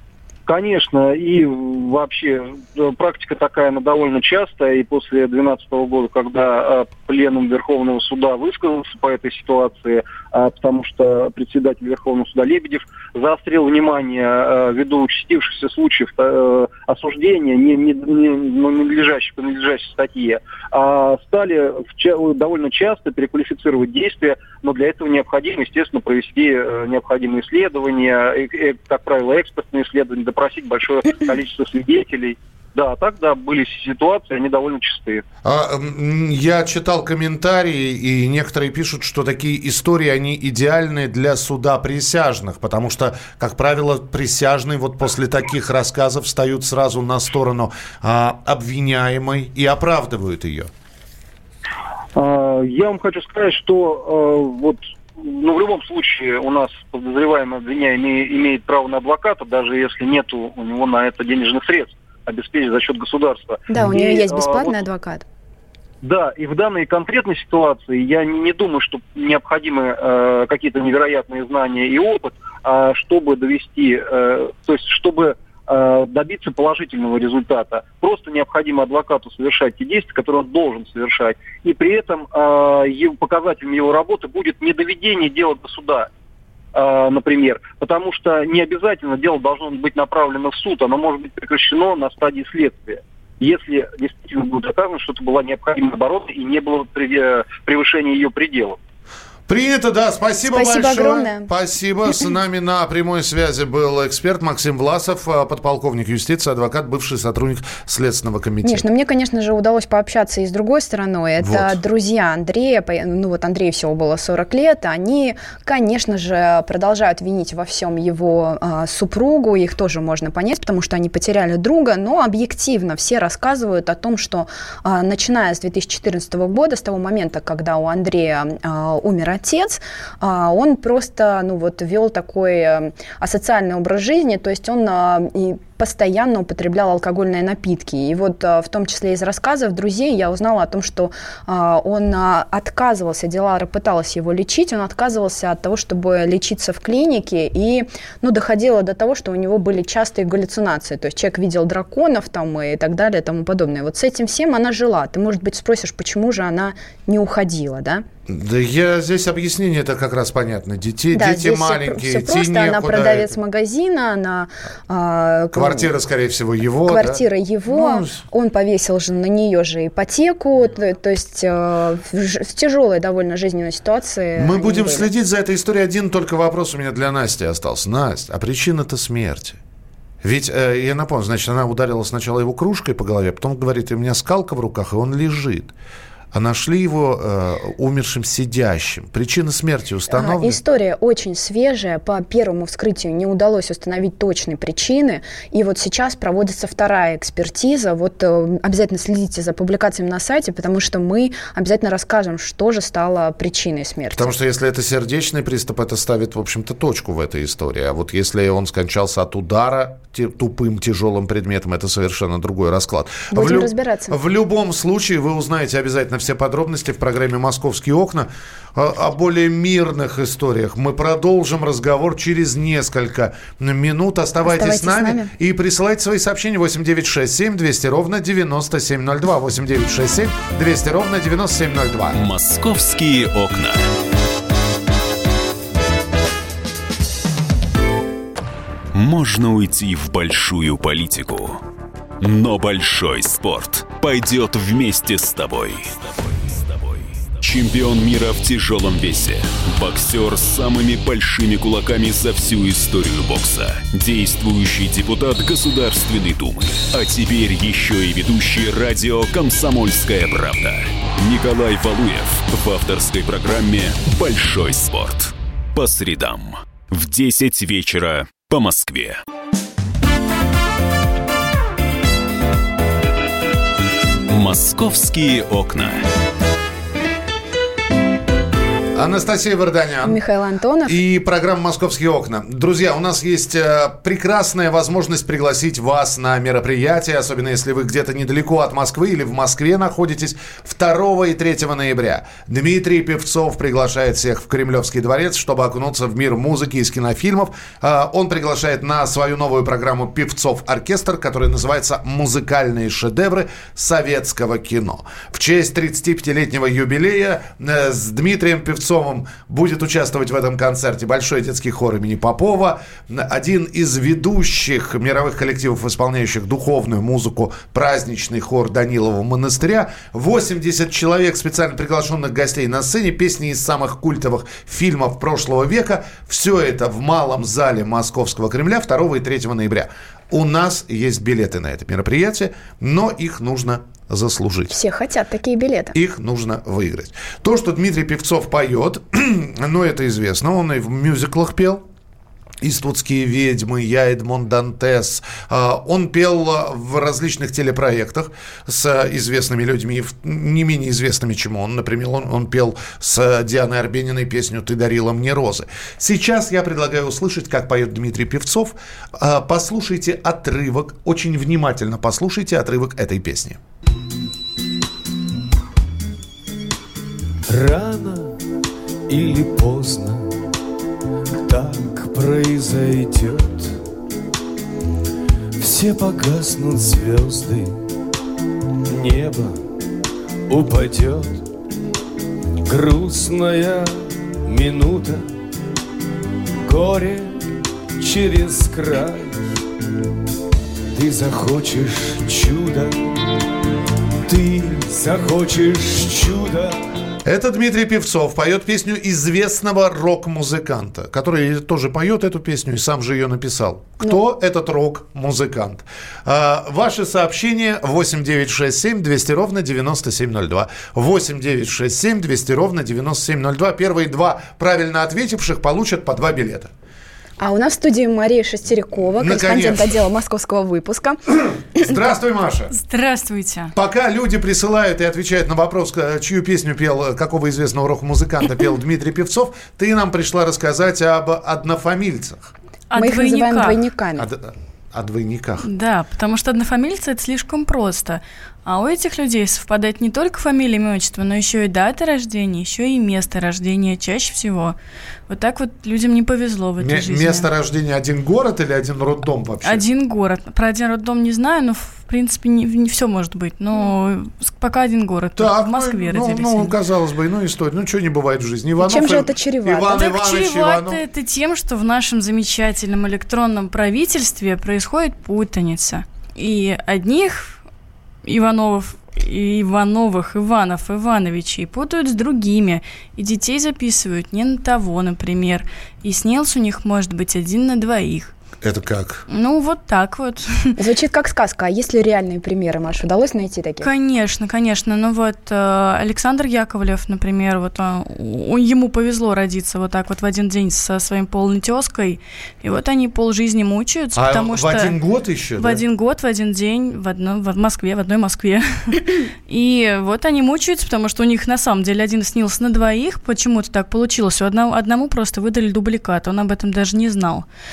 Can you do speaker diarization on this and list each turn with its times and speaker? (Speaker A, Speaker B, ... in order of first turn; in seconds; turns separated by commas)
Speaker A: 0.5-35.2, Speaker B: 35.4-50.7, Speaker A: 52.1-64.8, Speaker C: 63.7-65.2, Speaker A: 66.0-86.1, Speaker A: 86.7-98.8, Speaker B: 99.5-108.8, Speaker C: 100.5-101.5, Speaker C: 108.6-158.0, Speaker B: 111.4-111.8, Speaker B: 158.3-163.3, Speaker C: 161.1-165.9, Speaker B: 165.5-168.2, Speaker C: 166.9-175.1, Speaker B: 174.3-179.6, Speaker B: 180.2-185.7, Speaker B: 186.3-190.6, Speaker C: 190.1-204.3, Speaker B: 204.2-232.2, Speaker C: 213.3-214.2, Speaker C: 224.4-225.3, Speaker D: 232.1-233.9, Speaker D: 238.9-241.6, Speaker D: 242.2-269.2, Speaker D: 274.3-276.0, Speaker B: 278.9-280.2, Speaker C: 280.0-281.0, Speaker B: 280.8-334.7, Speaker C: 334.7-335.9, Speaker B: 335.9-341.8, Speaker B: 342.6-363.6, Speaker E: 367.5-368.4, Speaker E: 369.1-370.3, Speaker E: 371.4-373.8, Speaker E: 375.6-377.8, Speaker E: 378.9-379.6, Speaker E: 380.5-381.4, Speaker E: 382.7-385.3, Speaker E: 386.6-387.4, Speaker E: 388.0-389.4, Speaker E: 390.9-393.1, Speaker E: 394.2-396.8, Speaker B: 397.2-416.7, Speaker C: 417.4-421.2, Speaker B: 419.2-419.9, Speaker B: 421.7-422.7, Speaker F: 422.7-423.7, Speaker B: 423.8-432.5, Speaker F: 432.9-433.8, Speaker C: 432.9-434.3, Speaker B: 434.1-435.7, Speaker F: 435.6-444.8, Speaker F: 445.3-447.5, Speaker B: 446.8-449.8, Speaker F: 449.6-456.7, Speaker B: 455.4-461.0, Speaker C: 458.8-460.0, Speaker F: 460.0-467.6, Speaker F: 468.2-478.3, Speaker B: 478.6-479.2, Speaker F: 479.3-480.8, Speaker C: 480.8-483.9, Speaker F: 483.8-494.9, Speaker B: 494.1-495.8, Speaker F: 495.6-507.4